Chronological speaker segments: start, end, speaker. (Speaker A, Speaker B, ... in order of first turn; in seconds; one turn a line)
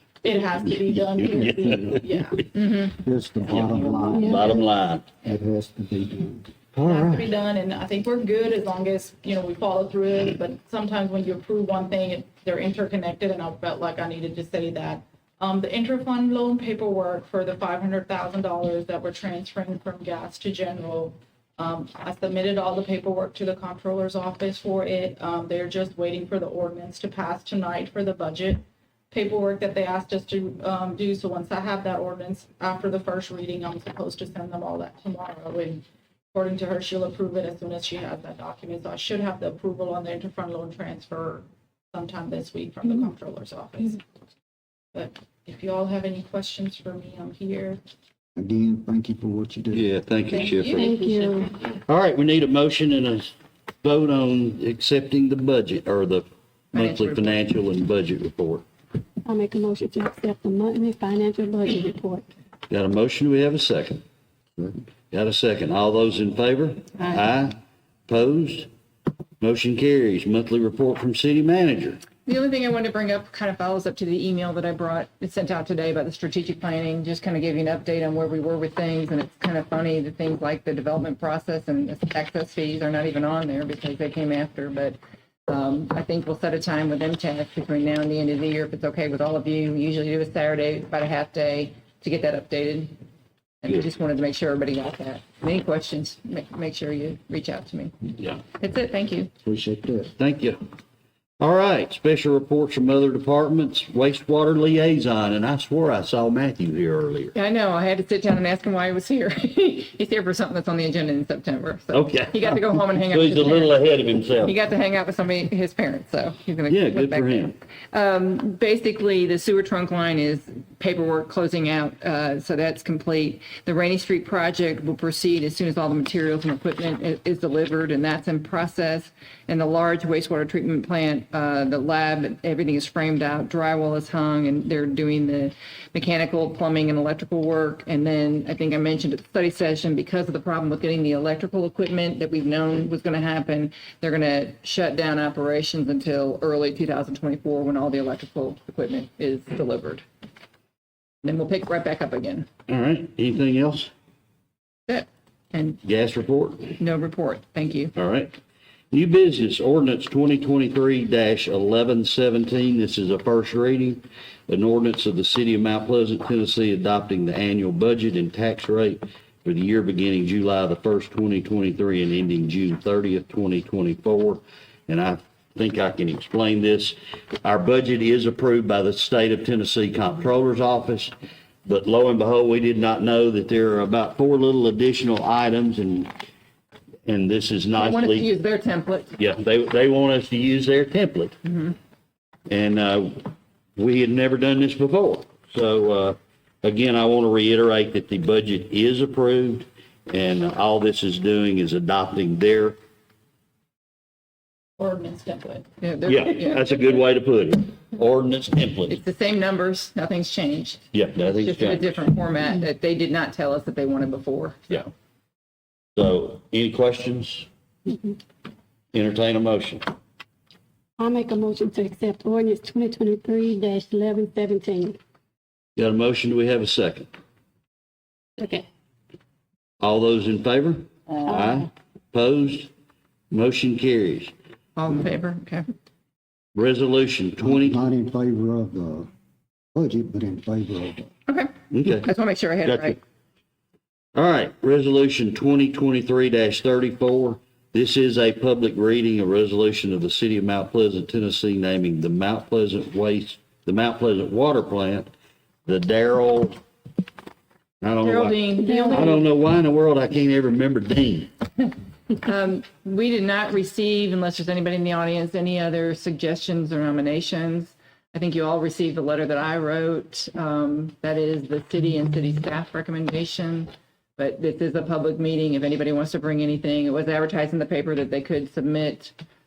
Speaker A: 0.2-2.5
Speaker B: 0.8-2.0
Speaker C: 1.4-2.0
Speaker D: 2.5-2.9
Speaker B: 3.0-4.7
Speaker C: 3.5-5.1
Speaker A: 3.5-4.6
Speaker E: 4.1-4.4
Speaker B: 5.2-6.5
Speaker C: 6.7-7.3
Speaker A: 6.8-44.0
Speaker A: 44.9-47.8
Speaker B: 48.4-49.9
Speaker C: 49.7-51.0
Speaker A: 50.3-51.5
Speaker E: 50.7-51.6
Speaker C: 51.8-58.6
Speaker D: 56.7-57.4
Speaker E: 59.2-62.2
Speaker C: 62.7-64.0
Speaker C: 65.1-68.7
Speaker C: 69.4-72.0
Speaker D: 72.2-93.0
Speaker D: 93.6-99.3
Speaker B: 99.4-100.1
Speaker C: 100.2-100.6
Speaker C: 101.4-107.3
Speaker D: 107.3-150.0
Speaker C: 111.9-114.5
Speaker C: 116.7-117.5
Speaker D: 151.2-152.5
Speaker C: 152.7-153.9
Speaker D: 154.9-155.8
Speaker C: 155.8-156.7
Speaker D: 156.8-157.9
Speaker C: 157.9-158.3
Speaker C: 158.9-181.1
Speaker C: 181.7-186.1
Speaker C: 187.1-188.3
Speaker D: 187.8-189.2
Speaker C: 189.2-191.3
Speaker D: 191.5-191.7
Speaker C: 192.5-202.8
Speaker A: 204.8-205.6
Speaker D: 205.8-207.0
Speaker C: 206.1-209.0
Speaker D: 208.9-214.9
Speaker C: 210.9-211.9
Speaker C: 215.9-217.5
Speaker E: 217.9-218.2
Speaker C: 218.9-219.8
Speaker E: 221.0-225.0
Speaker C: 225.8-227.1
Speaker E: 228.4-228.6
Speaker C: 229.8-232.7
Speaker E: 231.2-231.7
Speaker C: 233.3-234.3
Speaker D: 234.8-235.7
Speaker C: 236.5-237.8
Speaker B: 237.4-239.1
Speaker B: 239.7-241.1
Speaker D: 241.3-243.0
Speaker C: 241.7-242.1
Speaker C: 242.6-243.0
Speaker C: 244.1-255.1
Speaker C: 255.7-256.6
Speaker C: 257.8-261.3
Speaker D: 258.0-259.2
Speaker E: 258.6-259.1
Speaker D: 262.1-279.1